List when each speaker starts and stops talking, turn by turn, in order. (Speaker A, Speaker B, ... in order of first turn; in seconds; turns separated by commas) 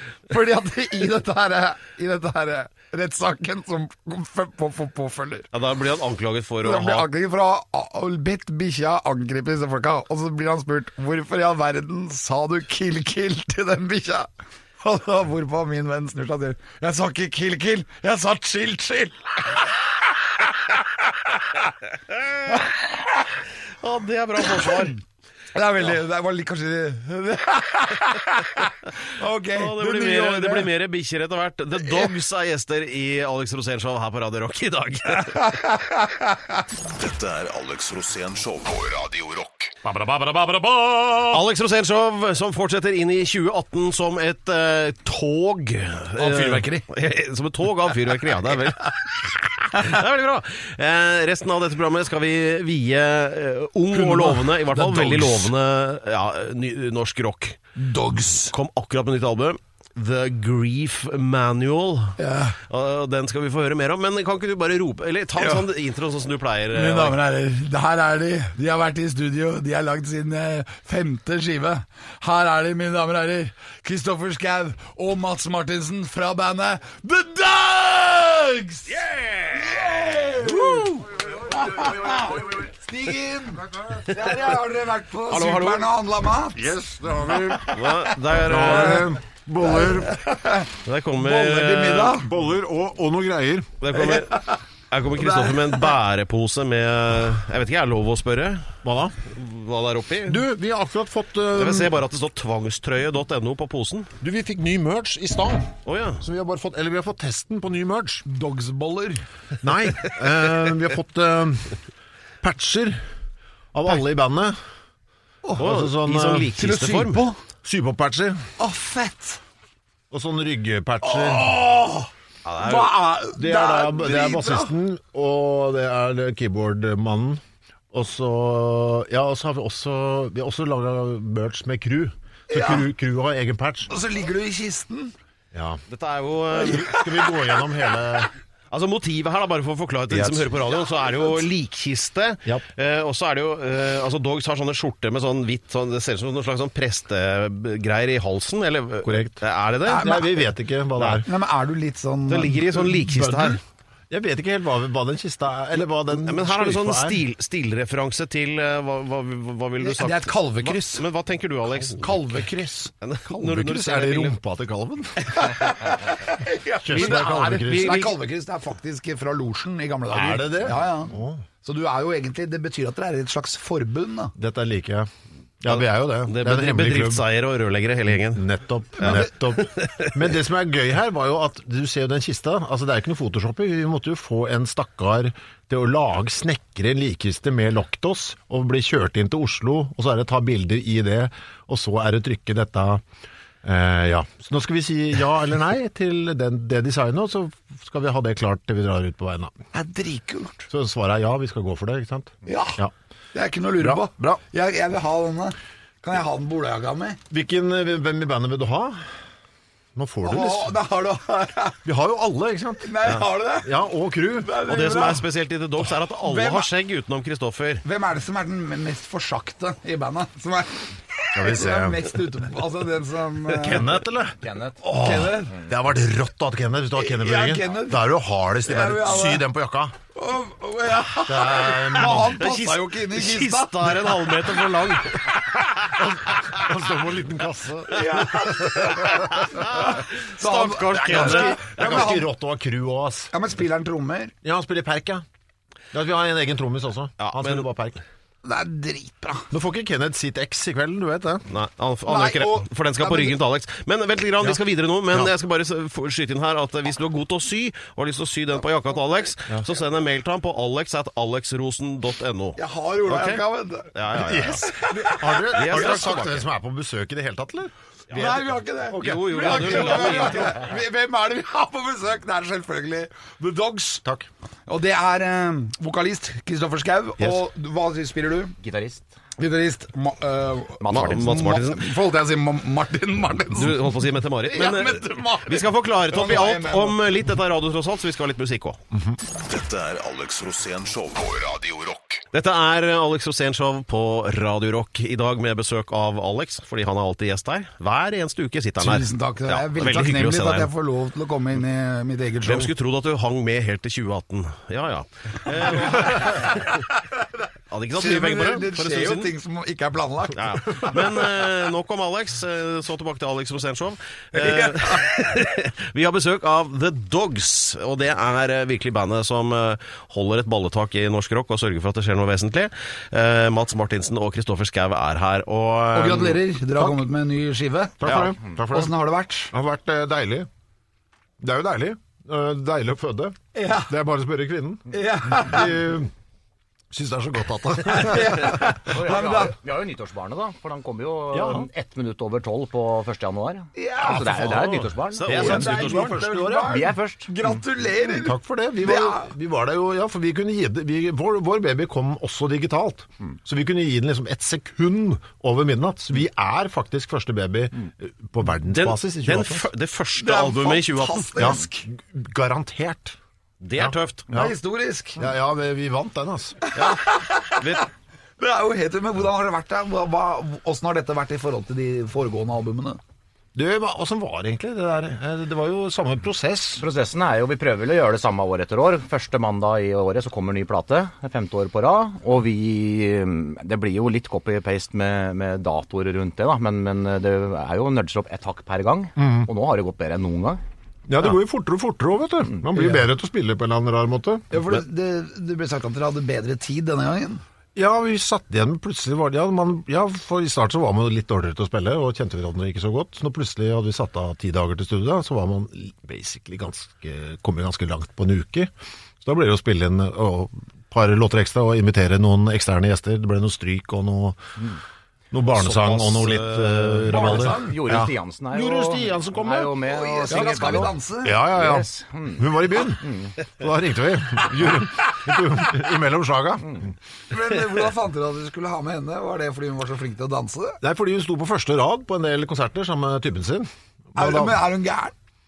Speaker A: 0.3-5.5, Speaker B: 5.5-7.0, Speaker A: 6.6-14.3, Speaker A: 14.8-19.6, Speaker A: 20.7-21.3, Speaker B: 22.1-22.4, Speaker A: 22.5-22.8, Speaker B: 23.8-25.0, Speaker A: 24.4-24.9, Speaker A: 25.5-30.7, Speaker B: 29.5-35.5, Speaker A: 35.2-36.5, Speaker C: 36.9-39.8, Speaker D: 39.9-41.4, Speaker B: 41.3-57.6, Speaker A: 46.1-46.9, Speaker A: 53.9-55.5, Speaker A: 57.8-58.5, Speaker B: 58.4-67.2, Speaker A: 62.2-62.6, Speaker A: 65.3-65.6, Speaker A: 66.7-86.7, Speaker B: 79.0-79.7, Speaker B: 80.4-81.0, Speaker D: 81.5-82.4, Speaker B: 85.3-85.9, Speaker D: 86.5-90.2, Speaker B: 87.7-89.1, Speaker A: 88.5-92.3, Speaker B: 90.8-92.2, Speaker D: 92.2-93.8, Speaker B: 93.8-98.7, Speaker A: 93.9-94.6, Speaker A: 95.2-95.7, Speaker D: 98.8-99.2, Speaker B: 99.2-100.4, Speaker D: 100.2-101.9, Speaker B: 101.5-104.1, Speaker D: 104.2-108.2, Speaker B: 105.8-106.2, Speaker A: 108.2-109.2, Speaker D: 109.6-111.8, Speaker D: 112.4-113.0, Speaker D: 113.7-114.6, Speaker A: 115.4-115.7, Speaker B: 115.5-117.3, Speaker D: 115.6-116.6, Speaker A: 116.5-117.4, Speaker D: 117.6-118.5, Speaker A: 118.6-119.4, Speaker D: 120.1-121.5, Speaker A: 121.0-124.8, Speaker B: 122.4-123.0, Speaker D: 123.3-127.4, Speaker D: 127.9-133.9, Speaker A: 132.5-132.9, Speaker A: 133.9-135.1, Speaker D: 135.5-135.8, Speaker B: 135.9-137.0, Speaker A: 136.6-137.4, Speaker D: 136.6-138.3, Speaker B: 138.7-150.2, Speaker D: 140.1-140.5, Speaker D: 149.0-151.3, Speaker A: 149.8-150.3, Speaker B: 150.9-151.2, Speaker A: 151.2-153.6, Speaker B: 152.3-153.6, Speaker D: 154.1-157.2, Speaker B: 156.2-162.2, Speaker A: 159.8-161.1, Speaker A: 162.0-162.9, Speaker B: 163.0-164.3, Speaker D: 163.3-165.6, Speaker A: 165.2-174.3, Speaker D: 166.8-168.2, Speaker B: 167.7-168.1, Speaker D: 170.1-171.4, Speaker D: 174.3-175.1, Speaker D: 175.6-177.2, Speaker B: 175.7-178.4, Speaker D: 178.3-193.0, Speaker A: 179.0-179.3, Speaker B: 179.0-180.2, Speaker D: 193.6-199.5, Speaker A: 199.7-200.7, Speaker D: 200.7-202.9, Speaker A: 202.4-202.8, Speaker A: 203.3-207.2, Speaker D: 203.8-204.4, Speaker D: 207.3-209.1, Speaker D: 209.9-210.7, Speaker A: 210.2-211.8, Speaker D: 211.8-214.5, Speaker A: 212.8-213.7, Speaker A: 214.4-215.2, Speaker B: 214.6-217.8, Speaker A: 216.2-216.7, Speaker A: 217.8-224.0, Speaker D: 221.3-222.1, Speaker D: 223.5-229.9, Speaker E: 224.4-224.8, Speaker A: 224.8-225.6, Speaker A: 226.9-228.1, Speaker A: 228.6-229.4, Speaker A: 230.1-234.8, Speaker D: 231.2-232.4, Speaker B: 232.1-235.9, Speaker D: 236.0-239.5, Speaker A: 237.9-242.3, Speaker B: 239.5-242.2, Speaker D: 241.1-243.3, Speaker A: 243.3-244.3, Speaker D: 244.4-245.2, Speaker D: 245.9-248.0, Speaker B: 247.2-247.6, Speaker A: 248.4-249.5, Speaker D: 249.5-251.5, Speaker B: 251.5-263.4, Speaker A: 252.1-253.4, Speaker A: 262.6-263.9, Speaker B: 263.9-264.7, Speaker D: 264.1-270.2, Speaker A: 264.6-266.2, Speaker B: 265.5-266.5, Speaker B: 268.1-268.4, Speaker A: 268.1-274.0, Speaker B: 268.9-270.7, Speaker A: 274.7-278.6, Speaker E: 278.6-279.1, Speaker A: 279.4-283.8, Speaker E: 280.8-281.2, Speaker B: 280.9-281.8, Speaker B: 283.5-288.8, Speaker A: 284.4-287.1, Speaker C: 289.3-292.2, Speaker B: 292.3-300.7, Speaker A: 298.8-302.7, Speaker B: 302.4-306.8, Speaker A: 305.7-306.8, Speaker B: 307.7-309.3, Speaker A: 307.9-311.0, Speaker B: 310.3-326.4, Speaker A: 314.3-315.3, Speaker A: 325.9-329.5, Speaker D: 328.0-328.9, Speaker B: 328.0-328.3, Speaker D: 329.5-330.5, Speaker D: 331.4-336.1, Speaker A: 333.5-333.9, Speaker A: 334.9-335.8, Speaker D: 336.9-338.6, Speaker A: 337.9-339.6, Speaker E: 338.9-345.7, Speaker D: 341.3-341.7, Speaker A: 343.7-344.6, Speaker D: 344.0-346.9, Speaker B: 344.5-346.2, Speaker A: 345.2-349.3, Speaker E: 346.6-347.3, Speaker D: 348.0-359.6, Speaker B: 358.7-361.5, Speaker A: 360.2-361.9, Speaker D: 361.4-363.2, Speaker B: 363.6-364.3, Speaker D: 363.7-364.5, Speaker A: 364.3-365.2, Speaker D: 365.2-366.6, Speaker A: 366.6-367.8, Speaker B: 366.7-367.0, Speaker B: 367.5-367.8, Speaker A: 368.4-373.0, Speaker D: 373.5-376.8, Speaker E: 376.8-390.6, Speaker D: 389.2-389.5, Speaker D: 391.1-394.5, Speaker A: 392.7-393.1, Speaker A: 394.5-397.4, Speaker D: 397.8-408.7, Speaker D: 409.2-414.4, Speaker D: 415.3-426.9, Speaker B: 415.5-417.2, Speaker E: 417.1-422.5, Speaker A: 417.1-417.8, Speaker A: 419.8-421.4, Speaker E: 423.0-423.3, Speaker A: 427.3-430.8, Speaker D: 430.8-434.6, Speaker A: 434.1-435.1